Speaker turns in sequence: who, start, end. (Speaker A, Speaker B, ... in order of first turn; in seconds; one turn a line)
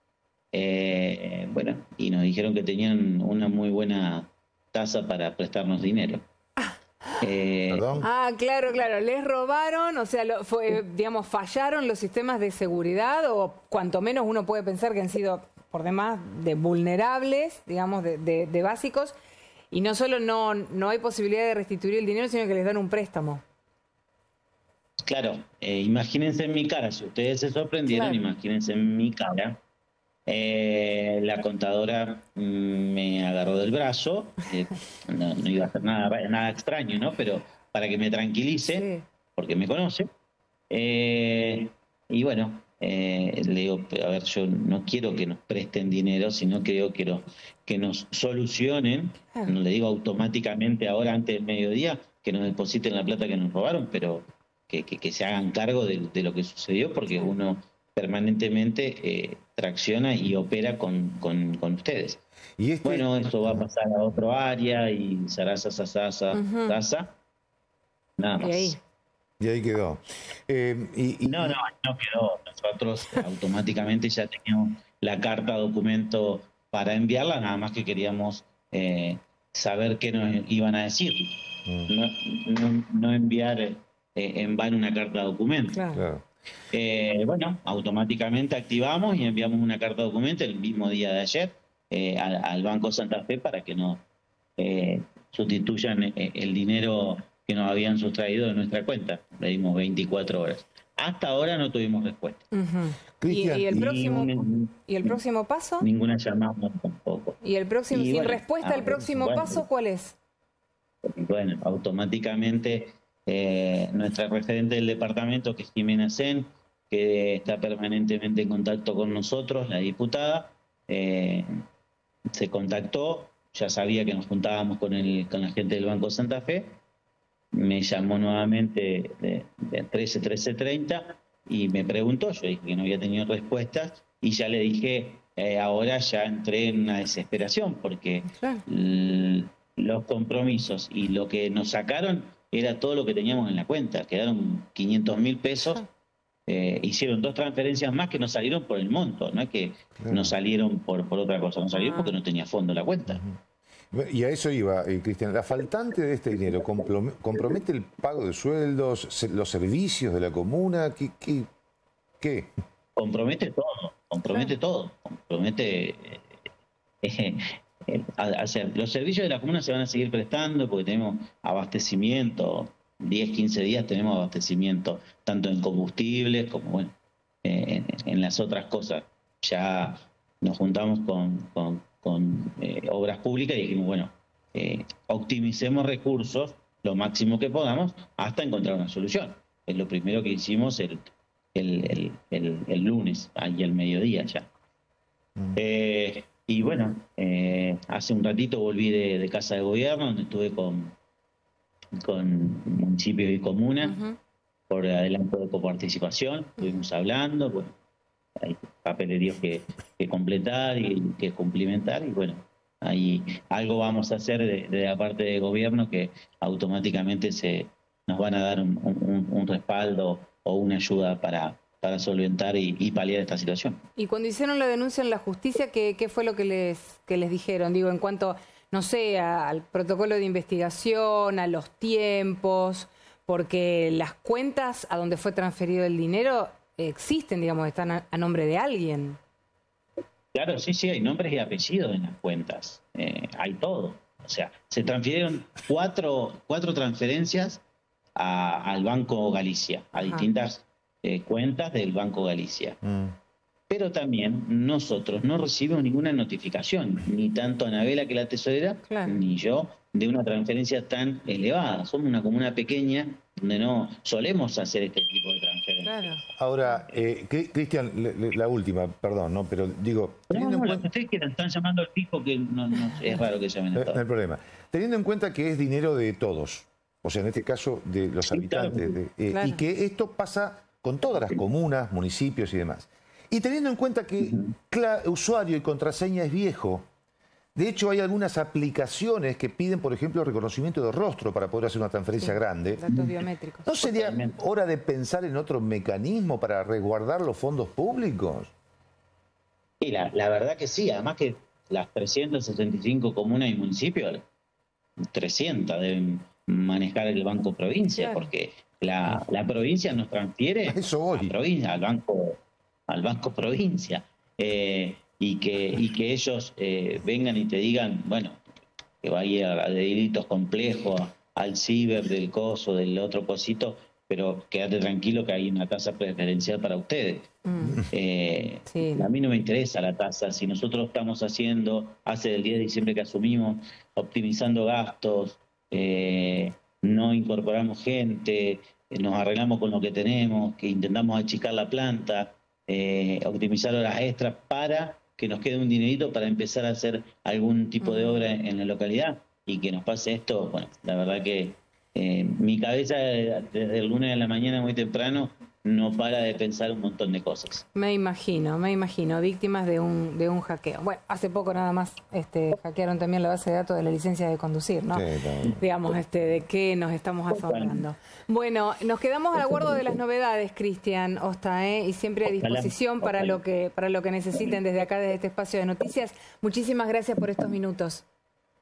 Speaker A: 0.5-6.2
Speaker A: 7.2-7.9
Speaker B: 7.7-8.1
Speaker C: 8.0-19.1
Speaker C: 19.7-23.4
Speaker A: 25.1-29.6
Speaker C: 27.9-28.2
Speaker A: 30.3-40.1
Speaker C: 38.6-39.0
Speaker A: 40.7-62.2
Speaker C: 49.3-49.6
Speaker B: 62.6-63.6
Speaker A: 62.8-67.1
Speaker C: 66.3-66.8
Speaker A: 68.2-68.8
Speaker C: 68.4-68.8
Speaker B: 69.4-71.6
Speaker A: 71.2-81.3
Speaker B: 81.7-81.9
Speaker A: 81.9-85.8
Speaker C: 85.7-86.1
Speaker B: 85.9-86.2
Speaker A: 86.7-94.0
Speaker A: 94.6-102.4
Speaker C: 102.5-105.9
Speaker B: 103.2-103.7
Speaker A: 103.7-105.2
Speaker A: 105.8-107.4
Speaker C: 107.4-110.2
Speaker A: 107.9-109.7
Speaker A: 111.0-121.6
Speaker A: 122.3-126.8
Speaker A: 127.5-145.8
Speaker C: 138.3-138.6
Speaker A: 146.5-153.2
Speaker B: 150.0-150.4
Speaker C: 151.7-152.2
Speaker B: 153.1-153.4
Speaker B: 153.9-161.5
Speaker B: 162.2-162.5
Speaker A: 163.0-166.2
Speaker C: 164.3-164.6
Speaker A: 167.0-194.5
Speaker A: 195.6-200.9
Speaker A: 202.0-204.0
Speaker C: 203.8-204.2
Speaker A: 204.7-207.8
Speaker A: 208.4-223.8
Speaker C: 224.0-239.2
Speaker A: 240.3-247.6
Speaker A: 248.2-252.8
Speaker C: 250.0-250.3
Speaker B: 252.8-253.2
Speaker A: 253.7-266.2
Speaker C: 258.9-259.2
Speaker C: 265.8-266.2
Speaker B: 266.4-270.9
Speaker A: 270.3-274.0
Speaker B: 273.7-286.9
Speaker A: 278.3-279.0
Speaker C: 279.3-279.6
Speaker A: 284.2-284.5
Speaker B: 287.6-292.9
Speaker C: 292.2-293.7
Speaker A: 292.9-293.1
Speaker B: 293.6-298.5
Speaker A: 293.8-294.4
Speaker A: 299.8-304.2
Speaker A: 305.1-318.4
Speaker C: 307.9-308.3
Speaker B: 310.7-311.4
Speaker A: 319.0-327.3
Speaker C: 327.4-327.8
Speaker A: 327.9-357.6
Speaker C: 328.7-329.1
Speaker C: 347.8-348.3
Speaker C: 357.8-378.1
Speaker B: 364.9-365.7
Speaker A: 367.3-367.8
Speaker A: 369.4-369.9
Speaker A: 372.2-373.4